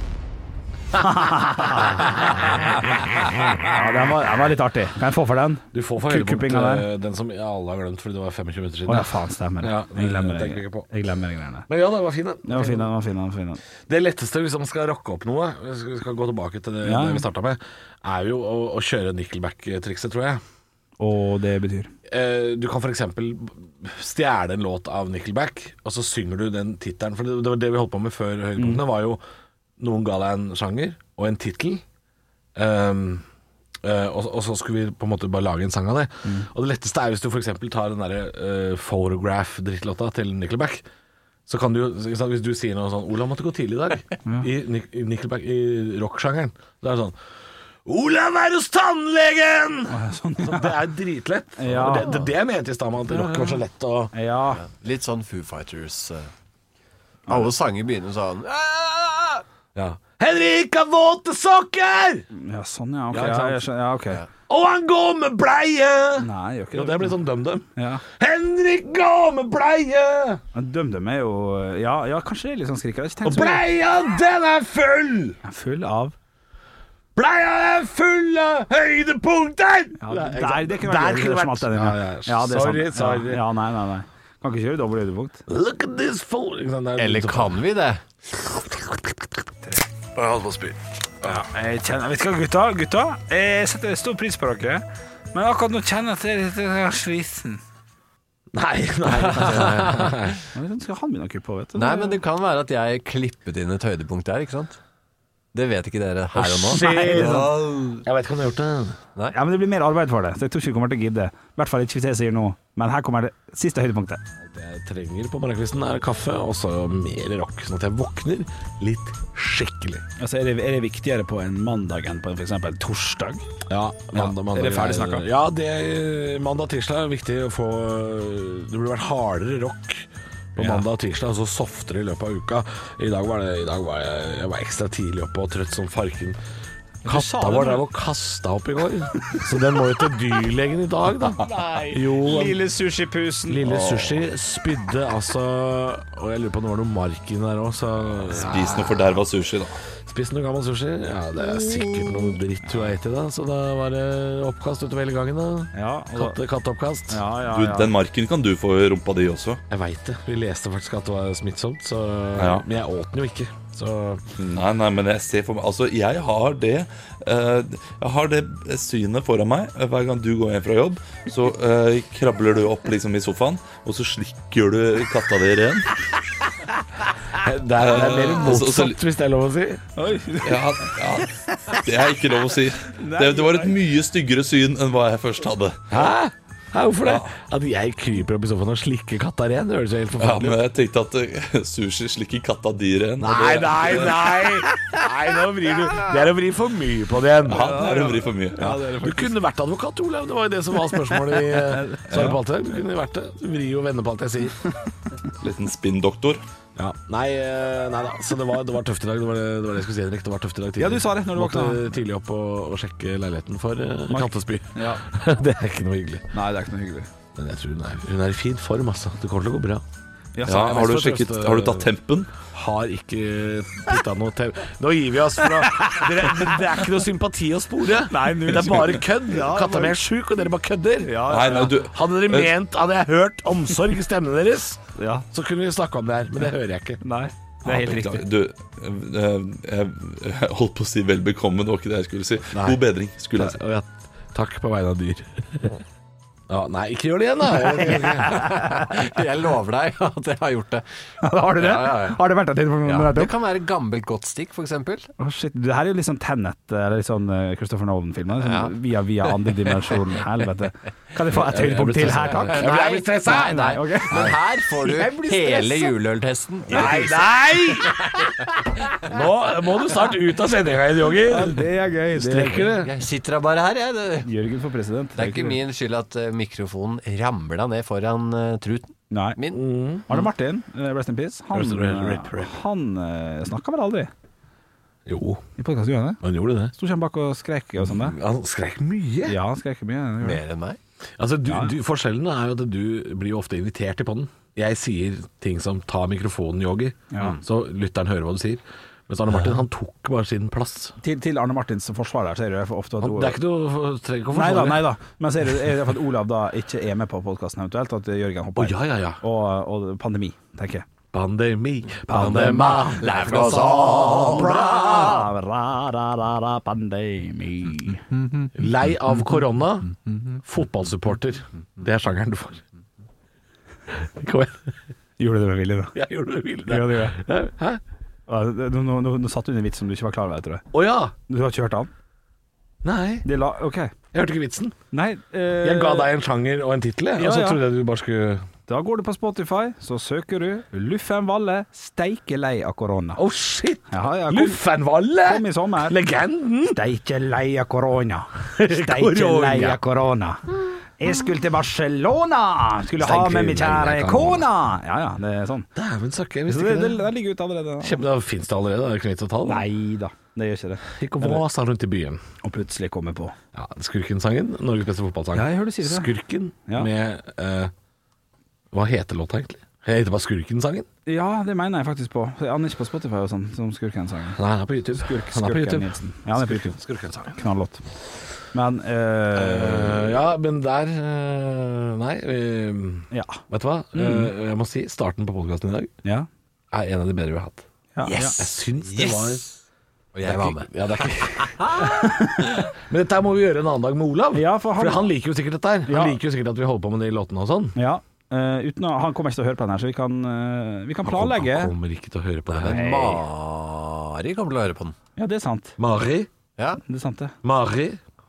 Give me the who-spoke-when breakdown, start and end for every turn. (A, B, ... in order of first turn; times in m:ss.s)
0:01.0-0:02.4 A
0:03.6-0:06.9 A
0:05.7-0:10.9 B
0:08.9-0:11.7 A
0:11.7-0:12.9 B
0:12.4-0:13.6 A
0:13.9-0:20.4 B
0:16.8-0:17.2 A
0:21.0-0:21.9 A
0:22.1-0:29.2 B
0:28.6-0:28.8 A
0:29.8-0:31.8 B
0:32.6-0:33.2 B
0:33.8-0:40.8 B
0:41.5-0:47.2 B
0:44.2-0:44.5 A
0:47.8-0:54.1 B
0:49.9-0:50.8 A
0:51.6-0:52.3 A
0:53.1-0:53.6 A
0:54.1-0:54.6 A
0:54.6-0:56.3 C
0:57.3-0:59.4 C
0:59.7-1:02.3 B
1:02.3-1:04.2 A
1:03.1-1:03.7 B
1:04.5-1:10.4 B
1:06.2-1:07.2 A
1:07.8-1:08.0 A
1:10.5-1:13.6 A
1:13.2-1:15.4 B
1:15.4-1:16.2 A
1:17.2-1:23.5 B
1:20.0-1:25.4 A
1:25.5-1:27.6 B
1:27.0-1:28.0 C
1:28.5-1:29.0 B
1:30.2-1:31.4 B
1:31.4-1:37.6 A
1:38.5-1:40.4 B
1:39.1-1:40.4 C
1:40.5-1:42.2 A
1:41.8-1:44.8 C
1:45.5-1:47.9 C
1:46.3-1:49.0 B
1:46.7-1:47.5 A
1:49.3-1:54.2 A
1:54.4-2:00.0 B
2:00.2-2:03.5 A
2:03.7-2:16.4 B
2:04.1-2:05.3 A
2:10.6-2:10.9 A
2:17.0-2:17.8 A
2:17.0-2:22.6 B
2:21.4-2:23.8 A
2:23.5-2:29.2 B
2:23.7-2:24.1 D
2:28.3-2:29.8 D
2:30.0-2:37.2 B
2:35.7-2:36.4 A
2:37.1-2:37.9 A
2:37.5-2:39.6 D
2:39.7-2:44.2 B
2:42.4-2:42.7 D
2:44.4-2:55.9 D
2:57.4-2:59.8 B
2:57.8-2:59.0 D
3:00.0-3:00.9 A
3:00.4-3:05.9 D
3:02.9-3:03.8 A
3:05.9-3:10.6 B
3:07.0-3:07.3 D
3:10.2-3:14.3 D
3:13.2-3:17.9 B
3:15.9-3:16.1 A
3:17.5-3:19.4 A
3:17.5-3:18.6 D
3:18.6-3:24.6 B
3:21.2-3:22.4 A
3:25.4-3:26.4 D
3:26.8-3:36.3 B
3:30.8-3:31.8 A
3:34.1-3:35.0 A
3:36.3-3:37.1 A
3:37.4-3:39.8 B
3:40.4-3:40.7 A
3:40.5-3:41.9 B
3:40.5-3:42.3 D
3:42.5-3:57.0 B
3:45.7-3:46.6 A
3:48.0-3:50.0 A
3:51.0-3:51.7 A
3:51.3-3:52.6 D
3:55.0-3:55.3 A
3:57.0-3:58.2 A
3:57.7-4:03.6 D
4:02.5-4:02.8 B
4:03.3-4:05.8 B
4:06.5-4:08.4 B
4:07.8-4:12.2 C
4:08.3-4:08.8 A
4:11.2-4:13.3 A
4:12.8-4:15.1 C
4:15.2-4:25.9 A
4:18.4-4:20.2 C
4:21.5-4:22.3 D
4:21.7-4:24.4 B
4:22.4-4:28.3 C
4:26.7-4:32.9 B
4:26.7-4:27.0 A
4:31.2-4:32.7 A
4:32.6-4:34.3 C
4:34.2-4:35.6 A
4:35.2-4:39.6 C
4:39.1-4:39.4 A
4:39.5-4:40.1 B
4:40.1-4:44.1 A
4:41.5-4:42.5 B
4:45.1-4:45.4 B
4:45.6-4:46.2 A
4:46.2-4:46.7 B
4:46.7-4:48.2 A
4:47.8-4:49.4 B
4:49.3-4:50.4 A
4:50.2-4:50.8 C
4:51.2-5:01.0 B
4:51.5-4:51.7 A
5:01.0-5:03.4 A
5:03.0-5:05.0 B
5:04.3-5:10.9 A
5:08.6-5:09.2 B
5:11.1-5:15.3 B
5:12.1-5:18.1 A
5:12.1-5:15.2 C
5:18.2-5:18.5 C
5:18.5-5:22.6 B
5:23.9-5:24.7 B
5:25.2-5:26.0 A
5:25.9-5:27.8 B
5:26.7-5:27.2 A
5:28.3-5:30.7 A
5:30.7-5:31.1 B
5:31.3-5:31.9 A
5:32.8-5:33.3 B
5:33.2-5:33.9 A
5:34.1-5:34.8 B
5:34.9-5:36.1 A
5:35.6-5:38.4 B
5:37.2-5:37.6 A
5:38.7-5:43.2 A
5:43.2-5:46.8 B
5:43.9-5:44.6 A
5:45.2-5:46.0 A
5:46.7-5:50.4 A
5:48.6-5:49.8 B
5:51.0-5:55.7 A
5:53.0-5:54.5 B
5:55.8-5:57.0 B
5:56.5-5:58.0 A
5:57.8-5:59.7 B
5:59.4-6:01.4 A
6:00.9-6:02.2 B
6:02.4-6:03.4 A
6:03.5-6:07.7 B
6:05.4-6:06.1 A
6:08.7-6:10.9 B
6:11.1-6:14.4 A
6:14.4-6:17.4 B
6:14.9-6:16.8 A
6:17.4-6:17.8 A
6:18.5-6:20.2 A
6:19.3-6:25.9 B
6:23.1-6:23.4 A
6:23.9-6:24.3 A
6:26.7-6:27.6 B
6:28.0-6:28.4 A
6:28.0-6:29.5 C
6:28.2-6:29.5 B
6:30.1-6:31.9 C
6:30.2-6:37.8 B
6:31.6-6:32.5 A
6:34.3-6:35.1 A
6:35.9-6:36.2 A
6:37.8-6:41.7 A
6:41.0-6:43.2 B
6:42.5-6:45.0 C
6:42.7-6:43.2 A
6:45.2-6:45.8 A
6:45.8-6:46.3 B
6:46.6-6:46.8 C
6:46.9-6:47.3 A
6:47.4-6:48.0 B